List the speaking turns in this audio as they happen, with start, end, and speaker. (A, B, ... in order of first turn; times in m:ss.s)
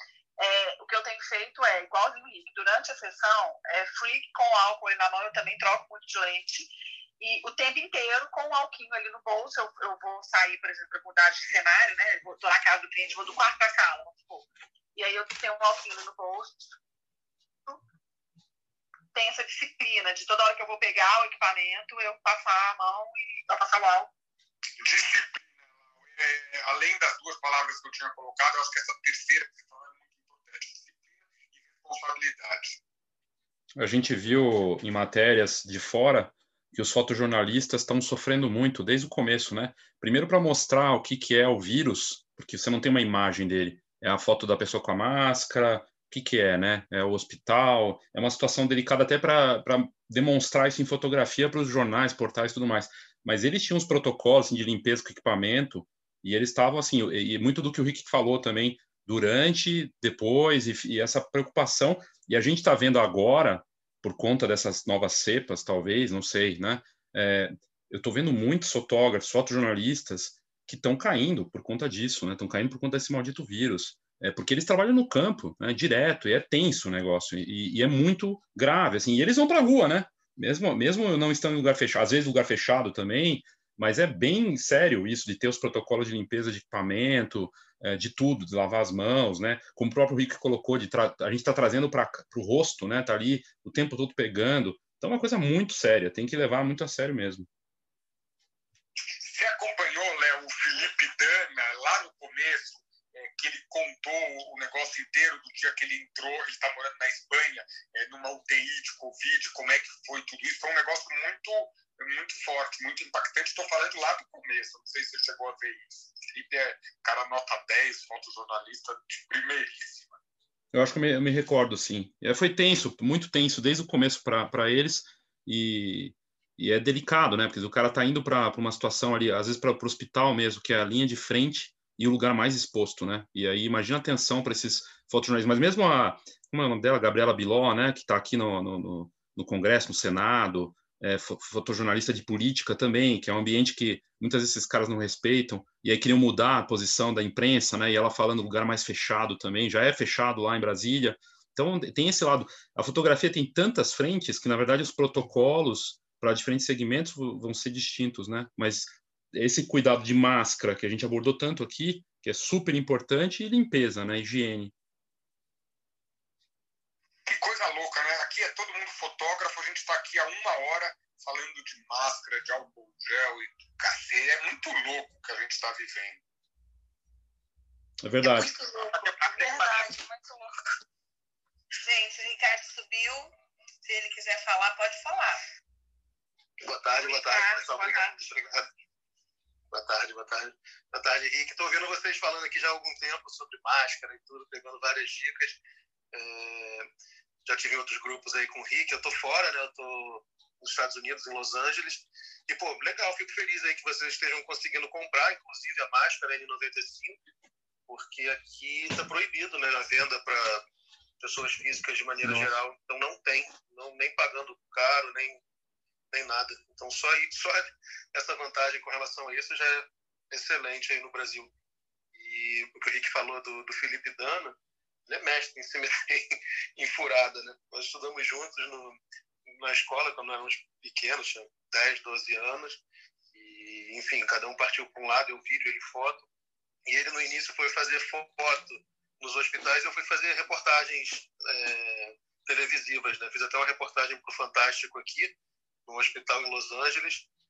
0:00.4-0:16.8 A
0:19.1-0:24.1 A
0:24.8-0:32.8 B
0:33.8-1:37.5 C
1:39.0-2:00.2 B
2:00.7-2:44.7 C
2:47.2-2:56.2 B
2:58.0-2:58.5 C
2:58.4-3:00.0 D
2:58.8-2:59.9 B
3:01.7-3:03.3 D
3:03.8-3:05.4 D
3:06.6-3:08.7 E
3:07.0-3:08.6 A
3:09.7-3:15.6 E
3:16.1-3:16.9 E
3:17.4-3:27.2 E
3:27.9-3:30.6 E
3:31.2-3:35.4 E
3:32.2-3:32.5 C
3:36.1-3:41.5 E
3:42.1-3:44.6 E
3:45.1-3:56.2 E
3:56.8-4:07.3 E